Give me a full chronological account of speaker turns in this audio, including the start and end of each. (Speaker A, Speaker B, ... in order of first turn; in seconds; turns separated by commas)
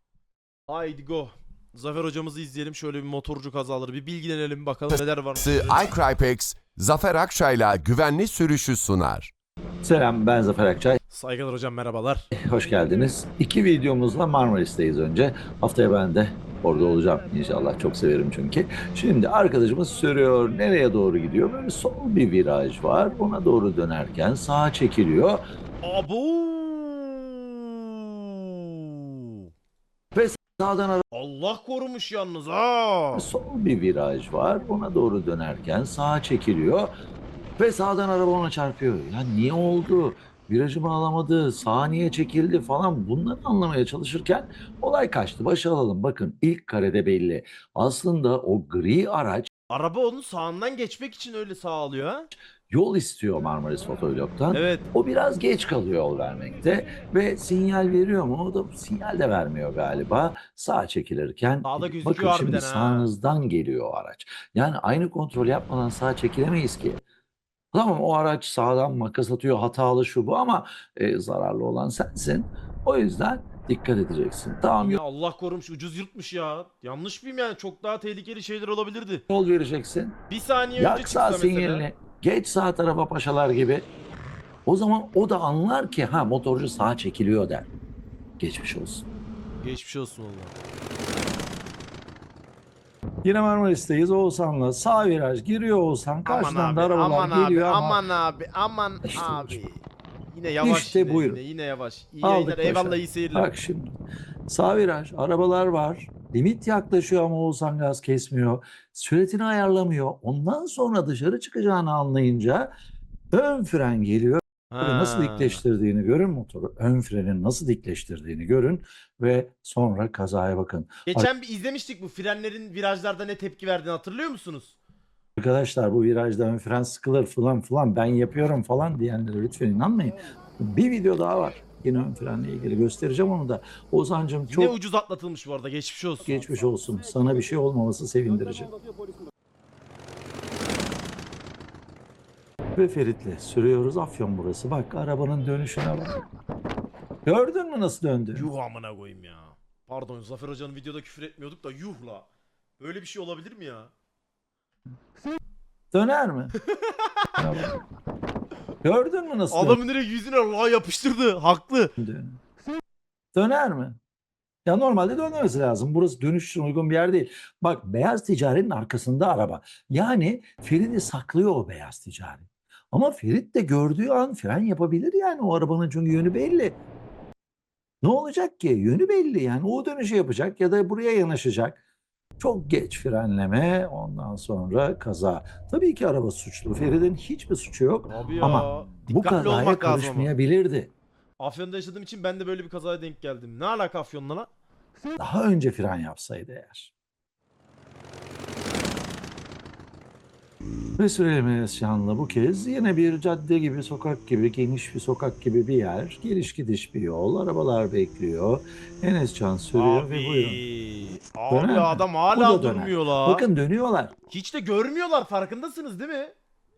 Speaker A: 0.7-5.9, Speaker B: 5.3-9.3, Speaker C: 9.8-11.0, Speaker A: 11.1-12.3, Speaker C: 12.3-25.4, Speaker A: 25.8-29.5, Speaker C: 30.1-31.0, Speaker A: 31.1-33.3, Speaker C: 33.1-36.9, Speaker C: 37.6-49.5, Speaker A: 49.7-52.3, Speaker C: 52.7-67.0, Speaker A: 54.5-54.9, Speaker A: 61.6-63.1, Speaker C: 67.7-75.0, Speaker A: 74.8-79.2, Speaker C: 79.3-80.2, Speaker A: 80.3-81.9, Speaker C: 80.8-83.9, Speaker C: 84.7-87.7, Speaker C: 88.4-89.0, Speaker A: 89.6-90.5, Speaker C: 93.2-98.0, Speaker A: 96.2-103.5, Speaker C: 99.0-99.6, Speaker C: 100.6-101.4, Speaker C: 102.2-112.8, Speaker C: 113.3-121.3, Speaker A: 114.7-115.6, Speaker A: 121.0-124.7, Speaker C: 125.4-134.8, Speaker A: 134.5-136.4, Speaker C: 136.2-138.7, Speaker C: 142.7-146.2, Speaker C: 147.2-148.5, Speaker A: 148.3-152.3, Speaker A: 152.8-153.9, Speaker C: 155.9-156.6, Speaker A: 156.7-157.4, Speaker C: 157.3-157.8, Speaker C: 158.8-159.8, Speaker A: 159.5-161.9, Speaker C: 162.0-162.4, Speaker C: 163.3-164.0, Speaker C: 164.6-176.8, Speaker C: 178.0-181.8, Speaker C: 182.4-190.9, Speaker A: 188.1-190.3, Speaker A: 191.4-194.5, Speaker C: 195.2-196.9, Speaker C: 201.0-210.6, Speaker A: 209.7-213.4, Speaker C: 211.5-214.2, Speaker A: 214.3-216.3